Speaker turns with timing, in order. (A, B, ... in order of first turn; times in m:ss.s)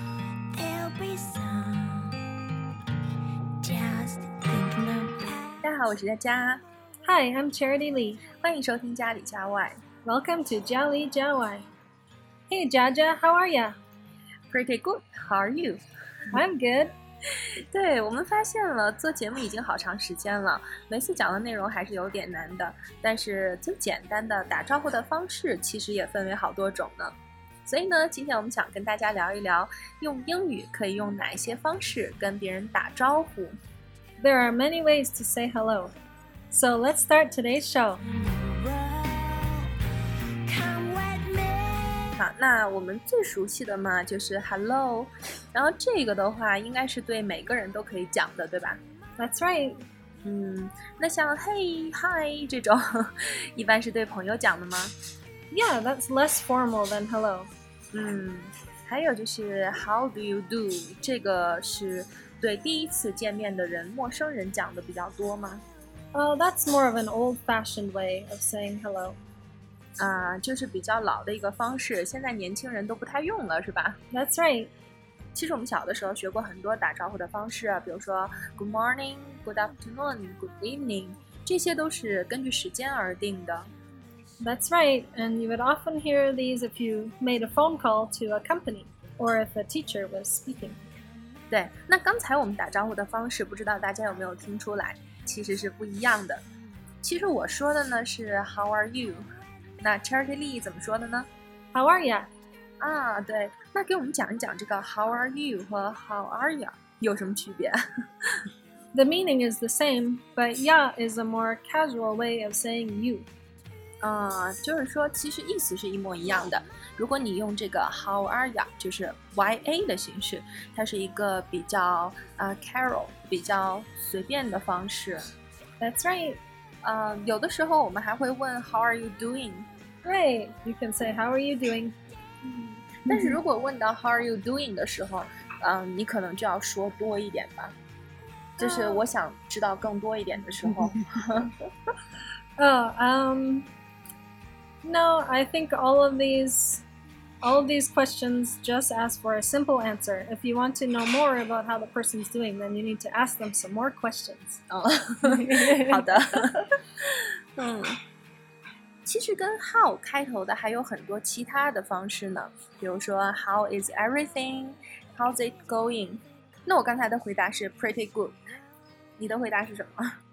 0:00.5-0:02.2 A
0:03.6-0:05.6 A
0:05.6-0:06.6 B
0:07.0-0:08.2 C
0:08.3-0:09.8 B
0:10.0-0:11.7 C
0:12.5-0:13.8 C
0:14.5-0:15.8 B
0:16.3-0:16.9 C
0:17.7-0:33.6 B
0:34.2-0:36.0 C
0:36.5-0:38.0 C
0:38.1-0:39.7 A
0:40.4-0:42.2 A
0:42.2-0:48.8 B
0:49.2-0:49.8 C
0:50.2-0:55.0 B
0:55.5-0:57.5 C
0:57.9-1:05.6 B
1:06.1-1:09.2 C
1:10.0-1:14.0 B
1:14.1-1:14.7 C
1:15.3-1:23.7 B
1:24.4-1:30.8 C
1:31.5-1:36.4 B
1:37.0-1:39.2 B
1:39.8-1:41.3 B
1:41.7-1:42.3 C
1:42.8-1:47.8 B
1:48.9-1:53.3 C
1:54.0-2:05.2 B
2:05.8-2:06.4 C
2:06.8-2:09.7 B
2:10.0-2:12.0 C
2:12.6-2:13.4 C
2:13.0-2:17.8 B
2:18.6-2:21.5 B
2:18.6-2:19.0 C
2:22.6-2:23.7 C
2:24.8-2:26.8 C
2:27.4-2:34.6 C
2:34.7-2:38.0 B
2:35.2-2:36.6 C
2:39.0-2:48.4 B
2:49.2-2:50.1 B